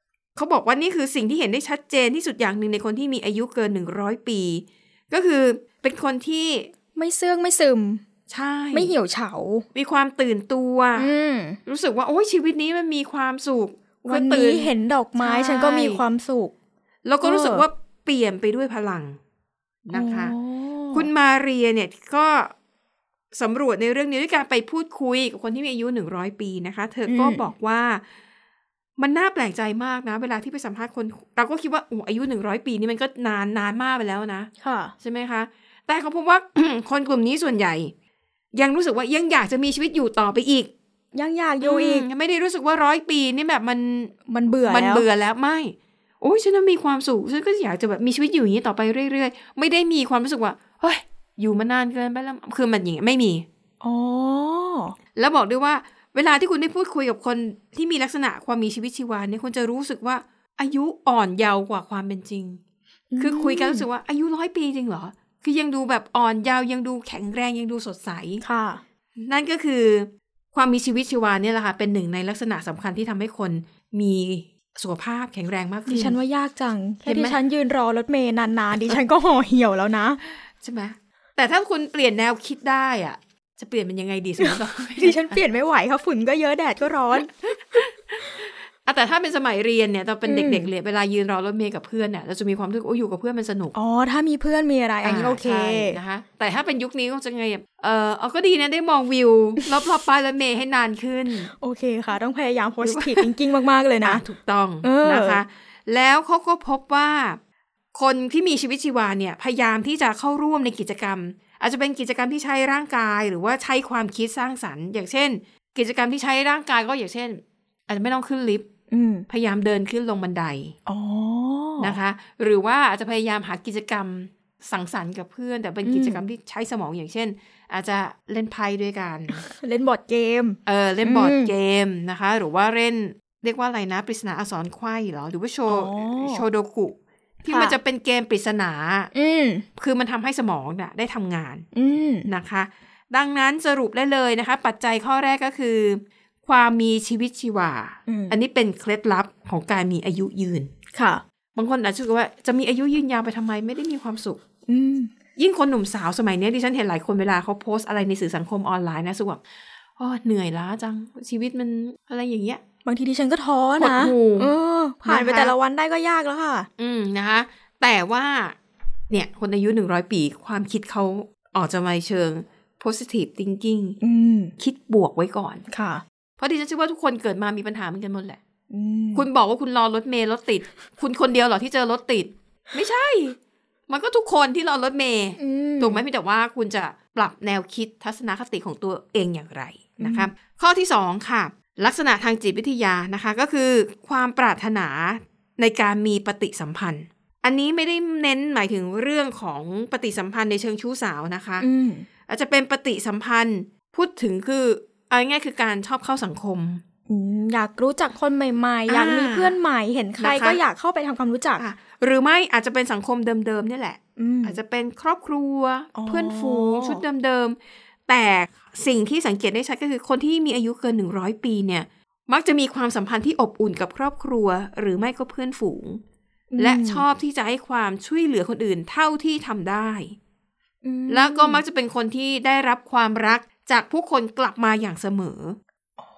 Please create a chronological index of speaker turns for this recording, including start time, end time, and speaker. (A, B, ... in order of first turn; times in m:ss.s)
0:00.4-0:06.7 A
0:07.0-0:08.0 B
0:08.3-0:08.9 A
0:08.7-0:09.7 B
0:09.8-0:11.1 A
0:11.0-0:11.6 B
0:11.6-0:16.0 A
0:14.0-0:16.5 B
0:17.0-0:19.2 A
0:17.2-0:17.6 B
0:19.8-0:20.3 A
0:19.9-0:21.1 B
0:20.9-0:22.5 A
0:23.3-0:28.0 A
0:27.1-0:27.5 B
0:29.0-0:37.9 A
0:34.6-0:34.9 B
0:38.5-0:40.7 A
0:41.1-0:42.1 B
0:41.6-0:44.1 A
0:44.3-0:45.0 B
0:44.7-0:53.5 A
0:53.8-0:55.0 B
0:55.2-1:02.6 A
1:03.1-1:03.8 B
1:03.2-1:08.4 A
1:08.4-1:08.8 B
1:09.2-1:16.2 A
1:15.9-1:20.2 B
1:17.0-1:17.4 A
1:20.6-1:25.4 A
1:24.4-1:27.6 B
1:27.5-1:33.8 A
1:30.3-1:30.7 B
1:33.8-1:36.0 B
1:35.0-1:41.5 A
1:41.5-1:44.2 B
1:42.8-1:43.3 A
1:44.0-1:47.4 A
1:44.8-1:45.4 B
1:47.9-1:58.7 A
1:58.9-1:59.3 B
1:59.3-2:00.8 A
2:00.9-2:02.0 B
2:01.8-2:09.4 A
2:05.8-2:06.2 B
2:09.3-2:11.5 B
2:10.7-2:19.1 A
2:15.7-2:16.4 B
2:17.5-2:17.8 B
2:19.1-2:19.7 B
2:19.8-2:21.7 A
2:21.7-2:22.3 B
2:22.3-2:30.7 A
2:28.1-2:28.4 B
2:31.0-2:31.2 B
2:31.6-2:34.4 A
2:34.7-2:35.1 B
2:35.4-2:39.4 A
2:40.0-2:42.6 A
2:42.8-2:46.7 B
2:43.8-2:44.5 A
2:45.0-2:45.5 A
2:46.8-2:48.6 A
2:49.1-2:54.0 A
2:54.0-2:54.5 B
2:54.6-2:55.7 A
2:55.7-2:56.0 B
2:56.4-2:58.4 A
2:58.7-2:59.3 B
2:59.2-3:03.4 A
3:03.9-3:21.7 A
3:05.4-3:06.0 B
3:10.0-3:10.3 B
3:21.6-3:22.1 B
3:22.3-3:26.8 A
3:27.1-3:31.6 B
3:28.9-3:29.6 A
3:30.2-3:30.6 A
3:31.6-3:46.0 A
3:34.2-3:34.6 B
3:36.0-3:37.0 B
3:46.5-3:47.0 B
3:46.6-3:50.2 A
3:50.8-3:51.6 B
3:51.1-3:55.6 A